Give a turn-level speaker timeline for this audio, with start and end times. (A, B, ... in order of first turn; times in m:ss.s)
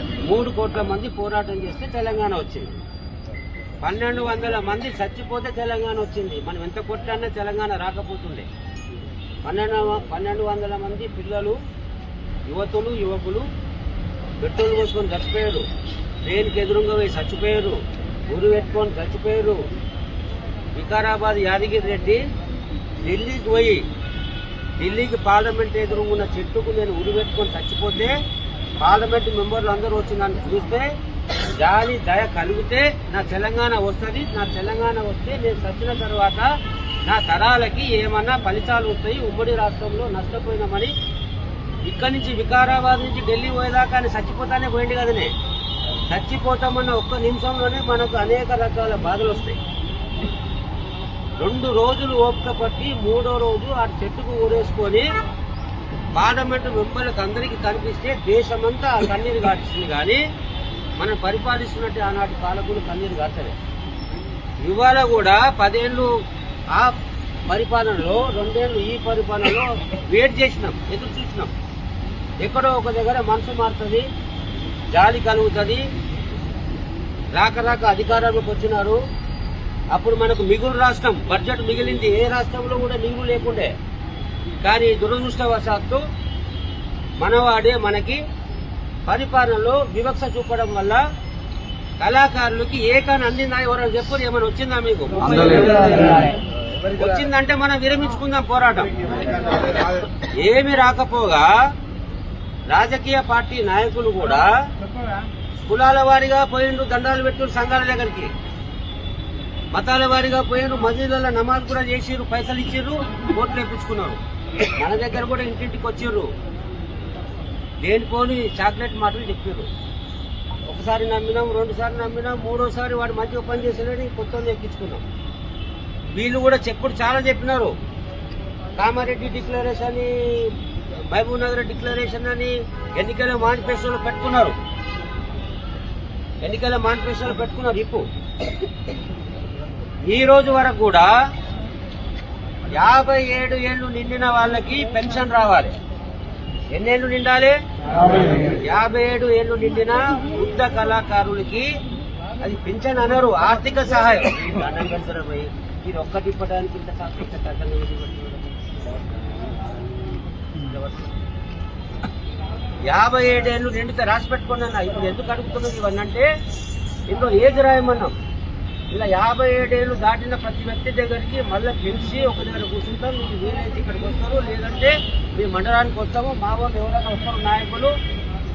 0:00.2-0:02.8 A
0:03.8-0:08.5 A
0:09.4-0:11.6 A
0:12.5-0:13.5 A
0:14.4-0:15.7 A
0:16.2-0:19.7 A
0:20.8-0:22.3 A
0:23.0-0:23.9 A
0:24.8-0:28.2 A
0:28.8-0:30.9 A
0:31.5-0:36.5 A
0:37.0-0:40.9 A
0:41.8-0:45.3 A
0:46.1-0:49.6 A
0:51.4-0:55.1 A
0:56.2-1:00.2 A
1:01.0-1:03.6 A
1:04.6-1:06.1 A
1:06.7-1:11.5 A
1:12.4-1:14.1 A
1:14.9-1:15.9 A
1:17.4-1:19.0 A
1:19.9-1:23.7 A
1:24.6-1:26.0 A
1:27.2-1:28.2 A
1:29.1-1:31.0 A
1:32.0-1:36.3 A
1:36.9-1:38.9 A
1:40.2-1:41.6 A
1:42.7-1:44.5 A
1:45.7-1:48.3 A
1:49.7-1:54.2 A
1:54.8-1:56.3 A
1:57.8-1:59.7 A
2:00.7-2:05.0 A
2:06.2-2:07.8 A
2:08.8-2:14.6 A
2:16.4-2:18.0 A
2:20.1-2:21.2 A
2:22.7-2:25.8 A
2:26.7-2:31.7 A
2:32.4-2:38.8 A
2:40.6-2:41.1 A
2:42.8-2:46.3 A
2:47.1-2:48.1 A
2:48.9-2:57.9 A